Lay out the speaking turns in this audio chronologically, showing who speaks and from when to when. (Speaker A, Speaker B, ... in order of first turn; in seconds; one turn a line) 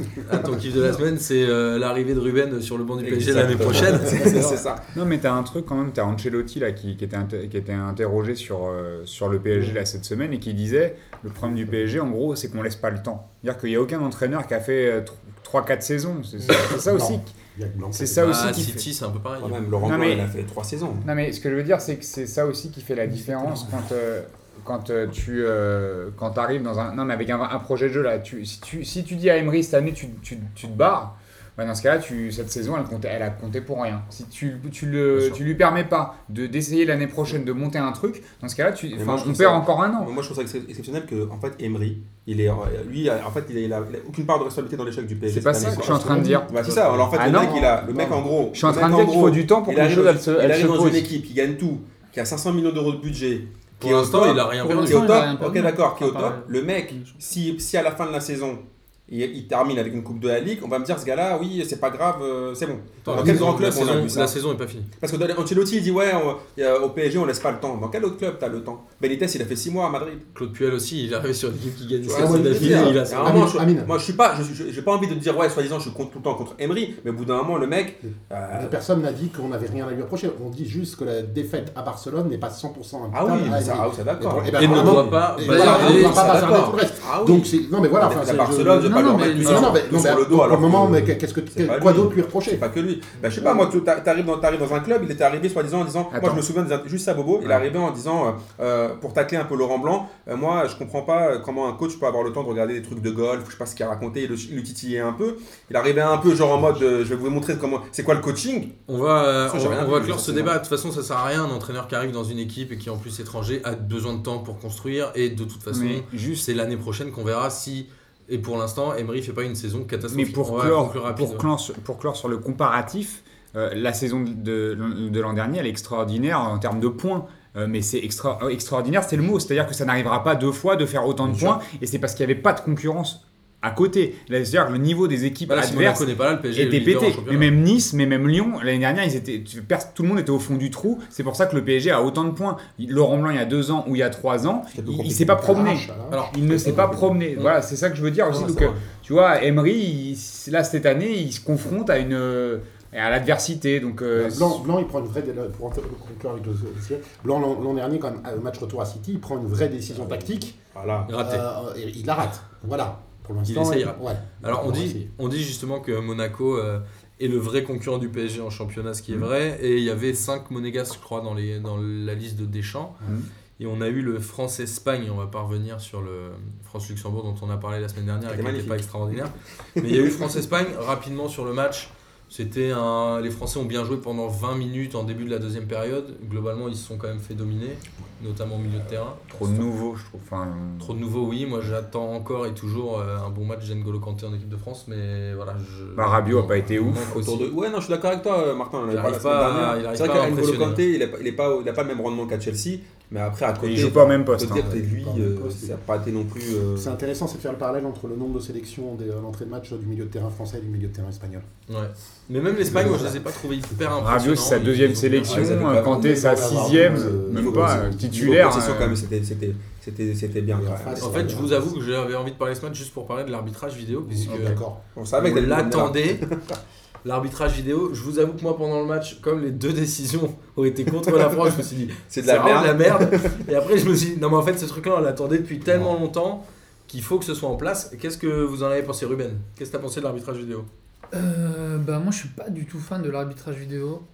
Speaker A: 0.2-4.6
Speaker B: 3.0-4.9
Speaker C: 4.9-17.4
Speaker D: 16.4-18.7
Speaker C: 17.9-18.9
Speaker A: 18.2-19.7
Speaker B: 19.4-21.1
Speaker C: 19.8-20.3
Speaker C: 21.0-40.1
Speaker D: 23.2-23.7
Speaker B: 39.0-64.3
Speaker C: 45.3-51.1
Speaker D: 45.6-47.0
Speaker A: 53.8-55.2
Speaker E: 54.5-57.2
Speaker A: 63.0-64.9
Speaker D: 63.1-63.6
Speaker B: 65.0-70.3
Speaker A: 70.3-73.5
Speaker B: 72.0-78.8
Speaker D: 72.1-73.9
Speaker D: 78.5-92.6
Speaker B: 83.1-108.7
Speaker A: 84.5-86.8
Speaker E: 85.5-85.9
Speaker E: 88.8-89.8
Speaker A: 89.4-89.8
Speaker C: 96.1-96.4
Speaker A: 108.9-121.5
Speaker B: 109.4-110.5
Speaker C: 115.7-116.5
Speaker C: 120.1-154.6
Speaker A: 135.5-137.5
Speaker B: 144.7-145.6
Speaker D: 145.3-146.3
Speaker A: 146.1-146.8
Speaker B: 146.5-147.2
Speaker B: 148.3-148.8
Speaker D: 154.1-160.6
Speaker B: 160.7-161.1
Speaker A: 161.1-161.4
Speaker D: 161.2-165.0
Speaker A: 163.4-173.0
Speaker A: 173.6-189.7
Speaker B: 178.3-178.9
Speaker B: 179.8-180.3
Speaker C: 189.3-191.0
Speaker A: 190.8-197.5
Speaker C: 195.9-197.1
Speaker B: 197.1-206.9
Speaker A: 198.9-200.8
Speaker C: 203.6-204.7
Speaker D: 203.6-205.7
Speaker D: 206.8-211.4
Speaker A: 211.7-215.8
Speaker D: 212.6-213.2
Speaker C: 214.0-219.0
Speaker B: 215.2-221.4
Speaker D: 215.7-218.4
Speaker D: 220.5-221.7
Speaker A: 221.0-224.6
Speaker D: 224.1-224.8
Speaker B: 224.9-226.6
Speaker A: 225.2-226.2
Speaker A: 227.0-240.7
Speaker B: 232.1-233.4
Speaker E: 241.1-244.0